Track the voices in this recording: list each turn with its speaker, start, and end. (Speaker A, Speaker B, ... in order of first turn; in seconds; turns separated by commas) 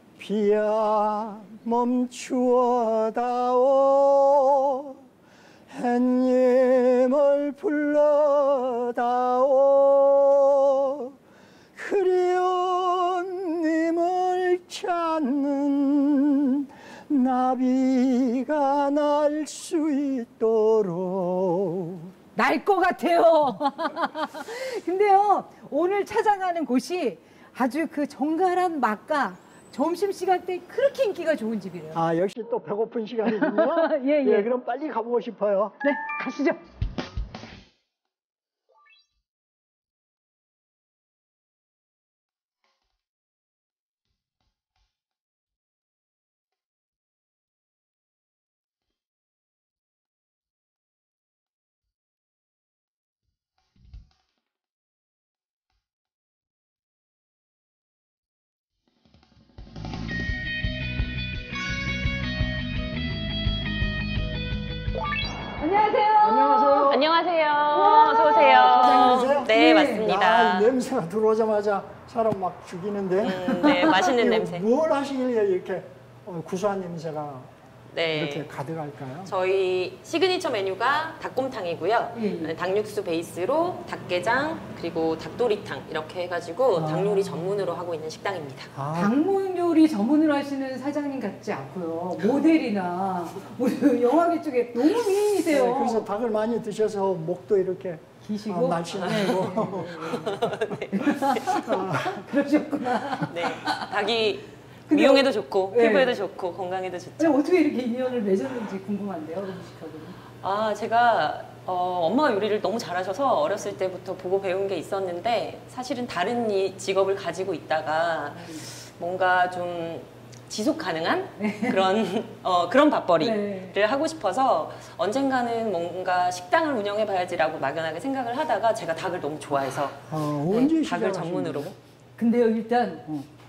Speaker A: 0.2-4.9, Speaker A: 5.7-11.1, Speaker A: 11.8-22.1, Speaker B: 22.4-32.0, Speaker A: 31.9-35.8, Speaker B: 33.2-34.5, Speaker B: 35.8-36.6, Speaker B: 65.6-67.0, Speaker A: 66.2-67.1, Speaker C: 66.9-70.8, Speaker B: 67.7-70.1, Speaker A: 68.7-77.5, Speaker C: 73.2-74.7, Speaker B: 73.6-74.0, Speaker C: 77.9-78.5, Speaker A: 78.1-79.3, Speaker C: 79.2-88.8, Speaker B: 82.1-82.5, Speaker A: 86.8-87.5, Speaker A: 88.8-89.2, Speaker B: 88.9-96.1, Speaker A: 95.5-100.6, Speaker B: 98.2-100.4, Speaker C: 98.9-101.8, Speaker B: 100.9-103.8, Speaker A: 101.5-102.4, Speaker C: 103.1-107.4, Speaker B: 104.9-106.2, Speaker B: 107.2-110.2, Speaker C: 110.4-131.8, Speaker B: 118.3-118.6, Speaker B: 121.4-121.8, Speaker B: 123.2-123.8, Speaker A: 130.1-131.8, Speaker B: 132.2-133.1